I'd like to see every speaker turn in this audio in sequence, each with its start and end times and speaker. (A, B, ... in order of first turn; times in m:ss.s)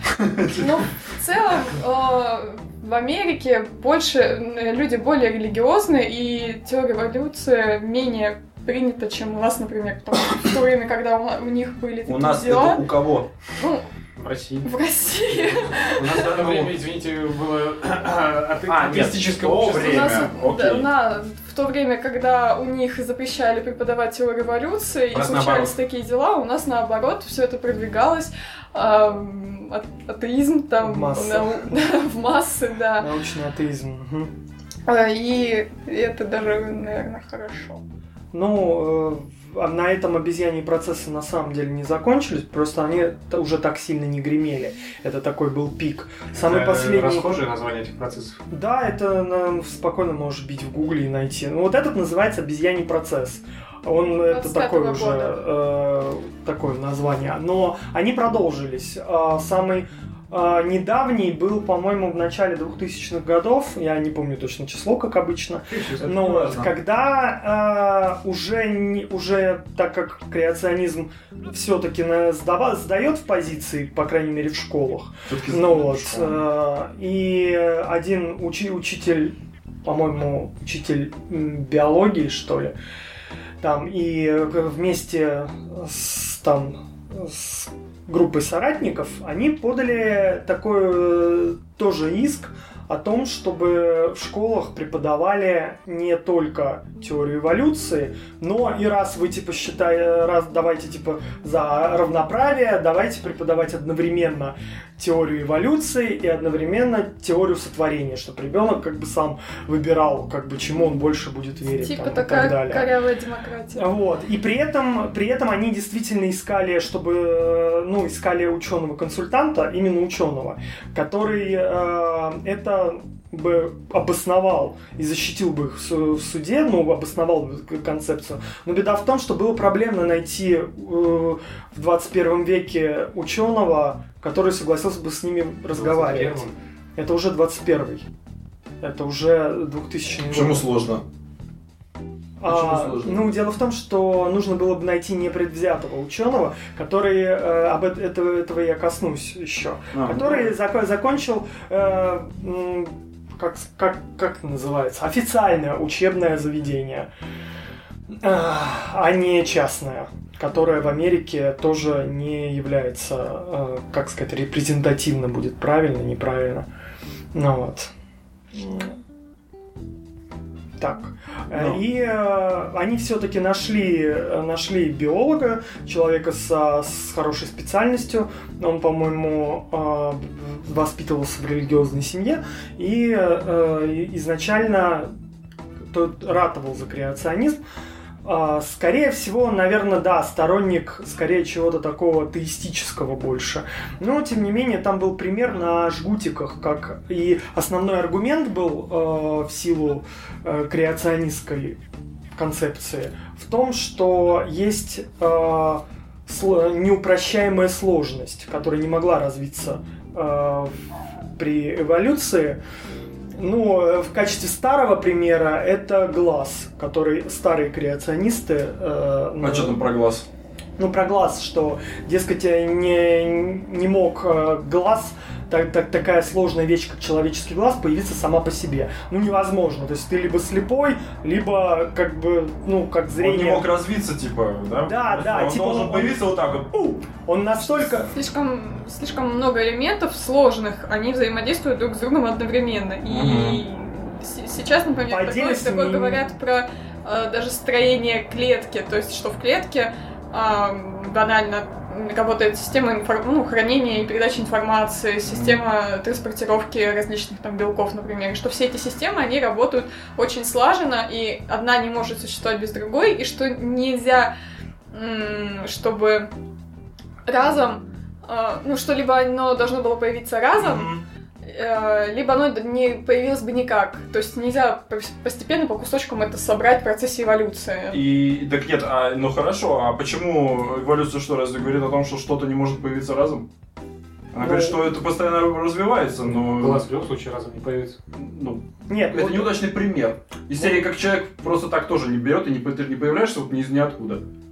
0:00.1-0:00.7 A
0:00.5-0:12.8 B
0:12.1-0:13.3 A
0:13.6-0:13.9 B
0:14.2-0:14.7 C
0:14.6-0:16.4 B
0:15.3-0:20.2 C
0:16.0-0:16.7 A
0:18.7-0:20.9 A
0:19.7-0:33.1 B
0:25.1-0:25.7 A
0:30.8-0:31.8 D
0:33.0-0:34.3 D
0:34.9-0:37.8 B
0:38.3-0:47.3 D
0:46.4-0:48.4 C
0:48.5-1:22.7 D
0:54.2-0:55.4 B
1:05.7-1:06.7 A
1:15.3-1:16.4 A
1:23.6-1:52.9 D
1:51.8-1:53.9 B
1:53.7-2:16.4 D
2:15.7-2:16.5 C
2:17.0-2:18.1 D
2:18.8-2:20.6 D
2:20.2-2:21.0 A
2:22.4-2:37.1 D
2:22.4-2:23.2 A
2:29.9-2:30.5 A
2:38.1-2:46.7 D
2:47.3-2:47.9 D
2:48.5-2:49.0 D
2:50.8-3:05.1 D
3:05.9-3:07.6 D
3:08.2-3:21.8 D
3:22.4-3:30.8 D
3:31.4-3:32.6 D
3:33.4-3:39.8 D
3:39.4-3:40.2 A
3:40.8-3:53.7 D
3:53.2-3:56.7 A
3:54.8-3:58.1 D
3:58.1-4:24.3 B
4:03.1-4:03.6 A
4:05.1-4:06.3 D
4:15.2-4:15.6 A
4:24.9-4:26.3 B
4:27.2-4:30.9 B
4:30.6-4:31.0 A
4:31.4-4:38.1 B
4:37.9-4:43.4 A
4:44.3-4:46.8 A
4:44.4-4:44.8 D
4:46.3-4:48.0 C
4:48.1-4:54.2 A
4:48.9-4:49.6 D